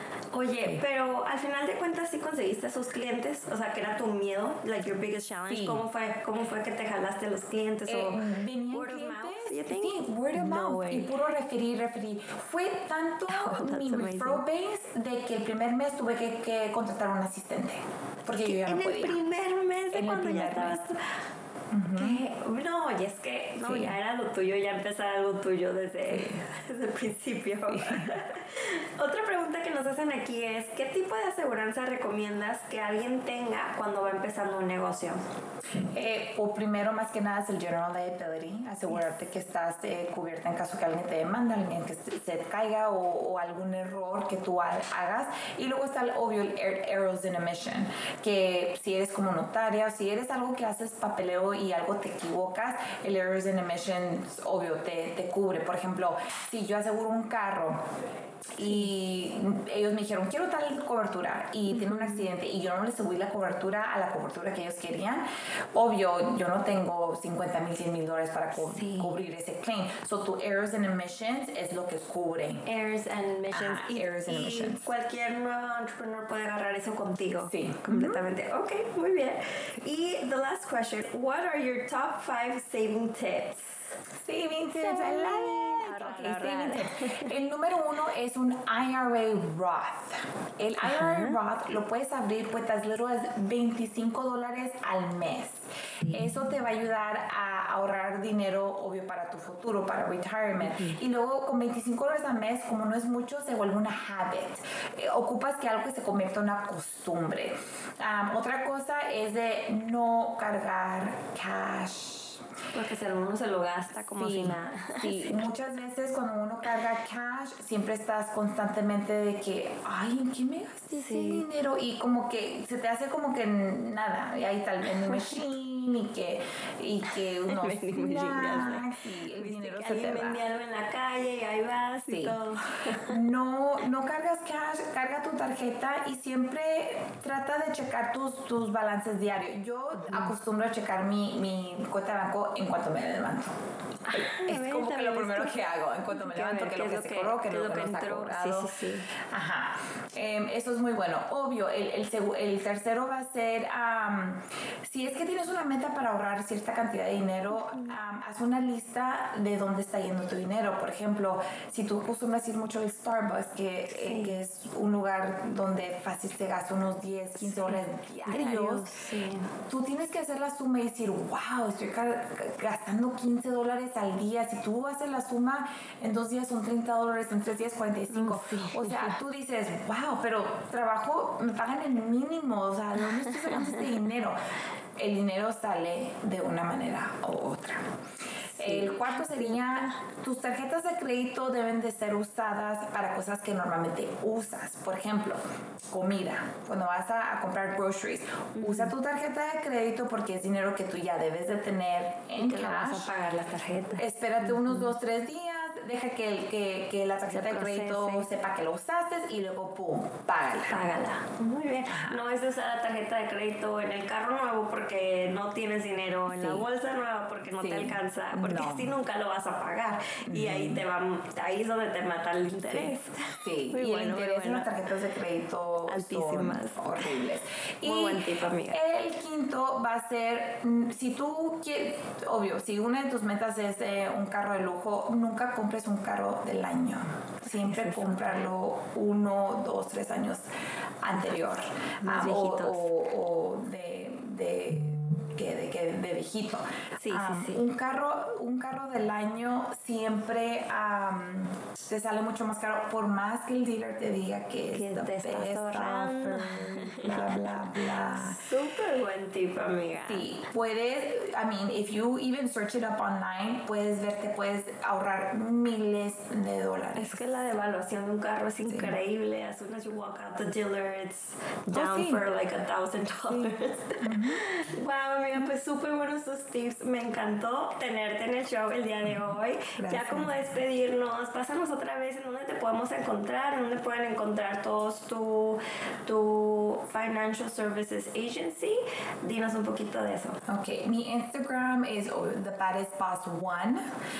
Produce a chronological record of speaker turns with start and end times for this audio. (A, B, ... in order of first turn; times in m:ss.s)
0:00.3-0:11.1 A
0:05.5-0:05.8 B
0:07.8-0:19.2 B
0:13.3-0:14.4 A
0:18.4-0:21.2 A
0:19.9-0:20.8 B
0:21.7-0:22.2 B
0:22.0-0:35.2 A
0:23.6-0:24.0 B
0:26.1-0:26.4 B
0:27.7-0:28.2 B
0:35.7-0:57.8 B
0:58.5-1:12.6 B
0:58.6-0:58.9 A
1:01.7-1:02.3 A
1:08.6-1:09.2 A
1:12.6-1:24.0 A
1:13.5-1:14.8 B
1:17.4-1:18.2 B
1:24.1-1:52.4 B
1:24.7-1:27.3 A
1:30.8-1:31.4 A
1:36.0-1:36.5 A
1:40.6-1:41.0 A
1:52.7-1:55.5 A
1:54.2-2:10.4 B
2:00.9-2:01.4 A
2:05.0-2:05.4 A
2:07.0-2:13.2 A
2:12.1-2:12.4 B
2:13.0-2:23.6 B
2:20.0-2:20.3 A
2:24.0-2:29.1 A
2:24.1-2:48.9 B
2:43.9-2:44.4 A
2:47.4-2:49.5 A
2:49.7-3:04.4 B
2:58.1-2:59.2 A
3:03.4-3:03.8 A
3:05.0-3:07.9 B
3:08.6-3:10.0 A
3:08.6-3:23.1 B
3:18.6-3:18.9 A
3:22.4-3:24.9 A
3:24.0-3:30.8 B
3:27.3-3:28.3 A
3:30.7-3:44.7 A
3:31.9-3:32.2 B
3:36.3-3:36.7 B
3:37.6-3:39.0 B
3:40.3-3:40.8 B
3:42.7-4:00.4 B
3:45.9-3:47.2 A
3:47.8-3:48.8 A
3:57.5-3:58.5 A
4:01.0-4:18.4 B
4:02.0-4:02.9 A
4:07.0-4:07.6 A
4:14.7-4:20.3 A
4:20.0-4:27.2 B
4:26.9-4:50.4 A
4:28.6-4:29.0 B
4:31.7-4:32.2 B
4:33.3-4:34.4 B
4:39.8-4:40.3 B
4:50.5-4:53.9 B